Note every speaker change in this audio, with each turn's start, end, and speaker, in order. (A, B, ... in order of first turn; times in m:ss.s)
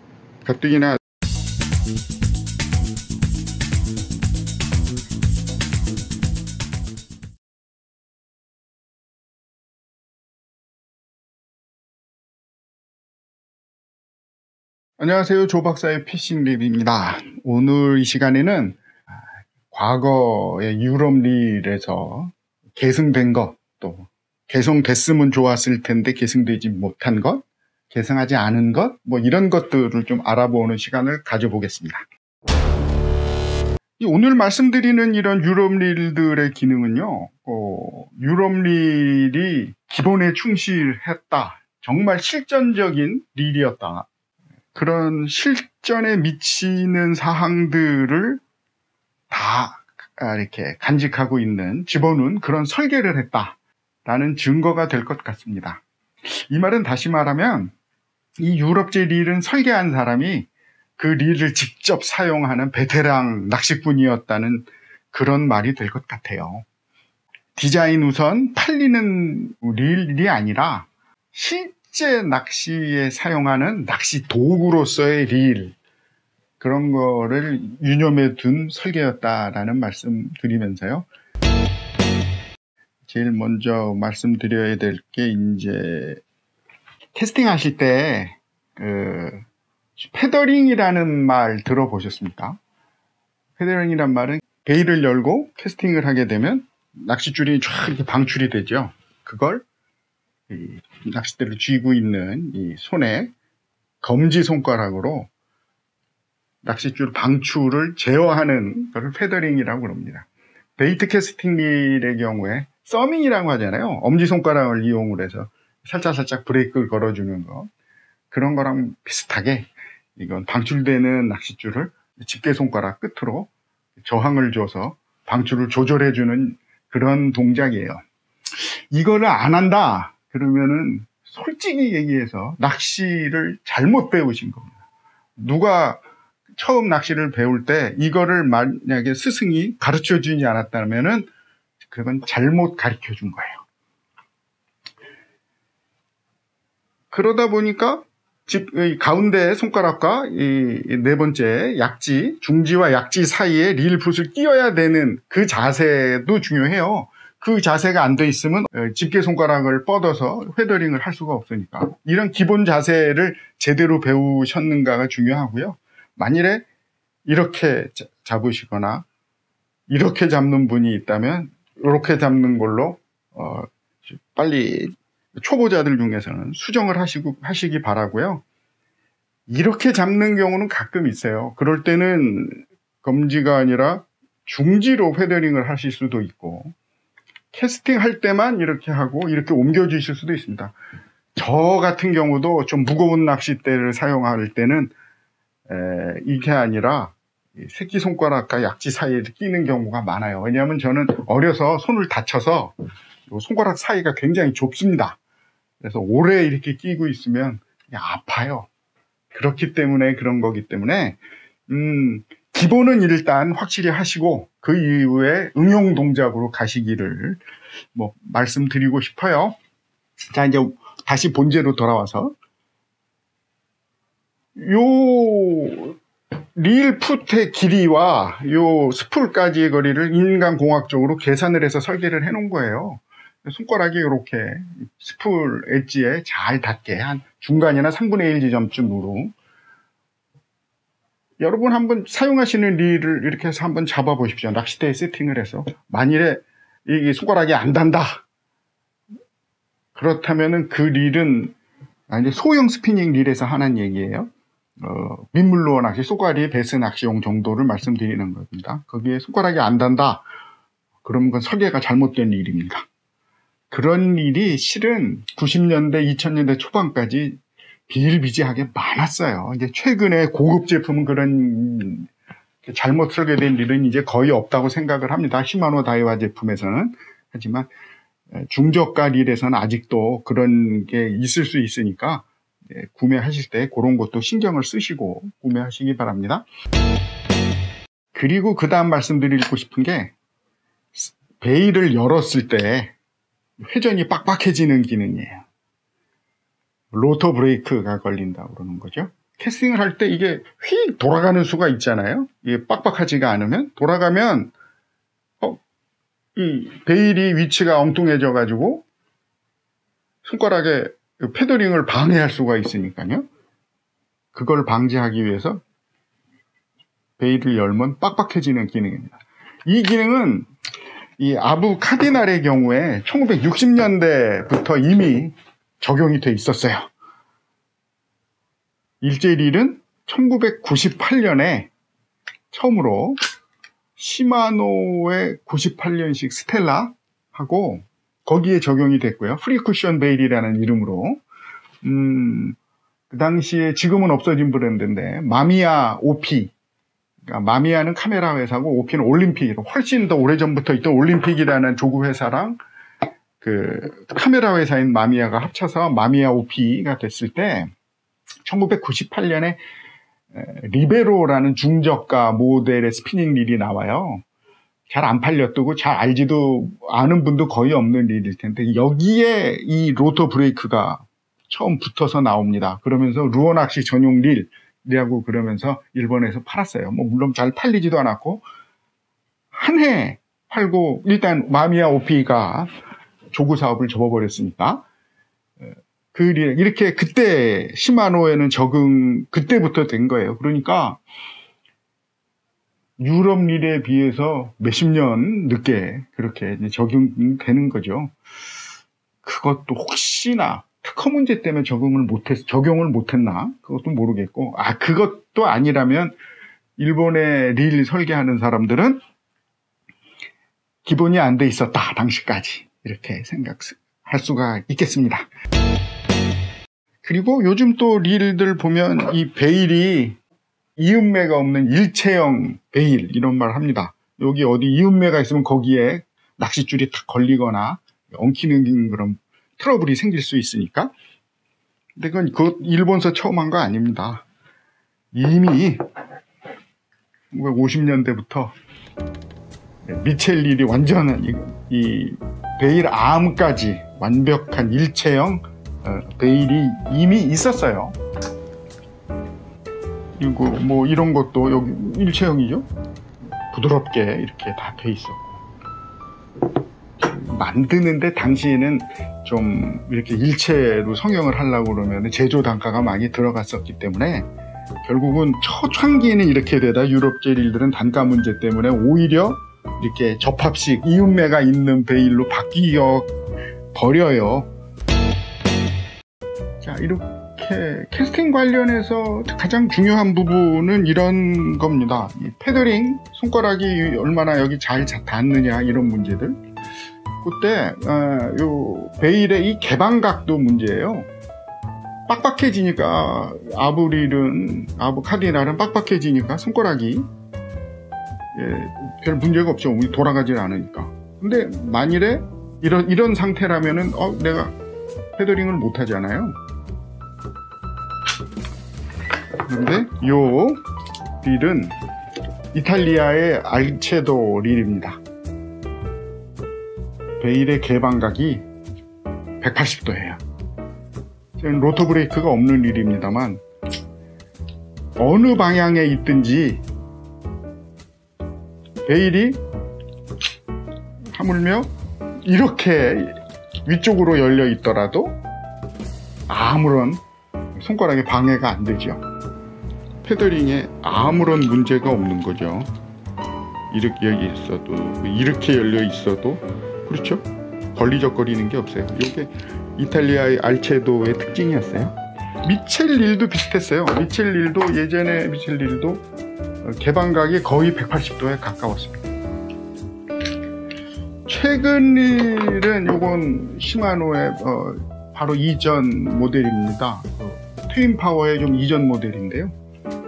0:00.4-0:01.0 A
0:15.0-0:18.8 A
0:19.7-0:32.0 A
0:34.0-0:44.1 A
0:44.7-0:48.4 A
0:49.3-0:57.7 A
0:58.4-1:06.6 A
1:07.6-1:15.8 A
1:16.6-1:21.1 A
1:23.1-1:26.2 A
1:27.2-1:29.4 A
1:30.0-1:32.6 A
1:33.6-1:39.6 A
1:40.5-1:43.3 A
1:44.0-1:45.3 A
1:46.6-1:57.7 A
1:58.3-2:03.5 A
2:04.0-2:08.0 A
2:08.6-2:14.7 A
2:15.4-2:16.0 A
2:16.6-2:21.3 A
2:21.8-2:23.6 A
2:27.1-2:46.6 A
2:47.3-2:49.0 A
2:49.9-2:58.4 A
2:59.5-3:06.8 A
3:07.5-3:10.8 A
3:11.4-3:14.9 A
3:15.7-3:22.7 A
3:23.3-3:25.2 A
3:25.8-3:28.7 A
3:29.3-3:37.4 A
3:38.0-3:39.6 A
3:40.3-3:42.4 A
3:44.6-3:46.0 A
3:46.6-3:59.4 A
4:01.4-4:08.2 A
4:10.0-4:11.5 A
4:12.1-4:20.2 A
4:21.0-4:22.8 A
4:23.7-4:32.1 A
4:32.6-4:37.7 A
4:38.3-4:46.5 A
4:48.1-4:50.1 A
4:50.9-4:52.9 A
4:53.6-4:55.4 A
4:56.9-5:04.5 A
5:06.4-5:08.8 A
5:10.2-5:13.3 A
5:14.3-5:15.6 A
5:17.2-5:19.1 A
5:19.7-5:20.5 A
5:21.2-5:26.9 A
5:29.0-5:31.7 A
5:32.5-5:33.2 A
5:34.0-5:41.2 A
5:41.8-5:42.6 A
5:43.1-5:46.5 A
5:47.2-5:52.6 A
5:53.4-5:57.7 A
5:58.4-5:59.6 A
6:00.3-6:04.2 A
6:04.9-6:18.4 A
6:19.5-6:22.7 A
6:23.3-6:24.8 A
6:26.1-6:31.0 A
6:33.0-6:38.1 A
6:39.2-6:46.2 A
6:46.8-6:49.0 A
6:50.8-6:55.3 A
6:57.0-7:00.2 A
7:00.8-7:10.9 A
7:12.0-7:14.2 A
7:15.1-7:15.8 A
7:17.3-7:18.5 A
7:19.8-7:28.0 A
7:30.2-7:32.7 A
7:33.5-7:35.4 A
7:37.0-7:44.3 A
7:44.8-7:53.1 A
7:53.7-7:54.5 A
7:56.6-8:06.4 A
8:07.2-8:11.1 A
8:12.1-8:17.1 A
8:18.3-8:24.5 A
8:25.2-8:26.4 A
8:29.4-8:30.6 A
8:31.2-8:31.7 A
8:32.5-8:35.0 A
8:37.2-8:38.4 A
8:39.4-8:40.2 A
8:41.4-8:43.4 A
8:45.0-8:46.6 A
8:48.9-8:49.4 A
8:51.1-8:51.7 A
8:52.3-8:55.2 A
8:56.3-8:57.0 A
8:57.6-8:59.0 A
9:00.0-9:02.7 A
9:03.7-9:16.1 A
9:16.6-9:19.1 A
9:21.3-9:29.5 A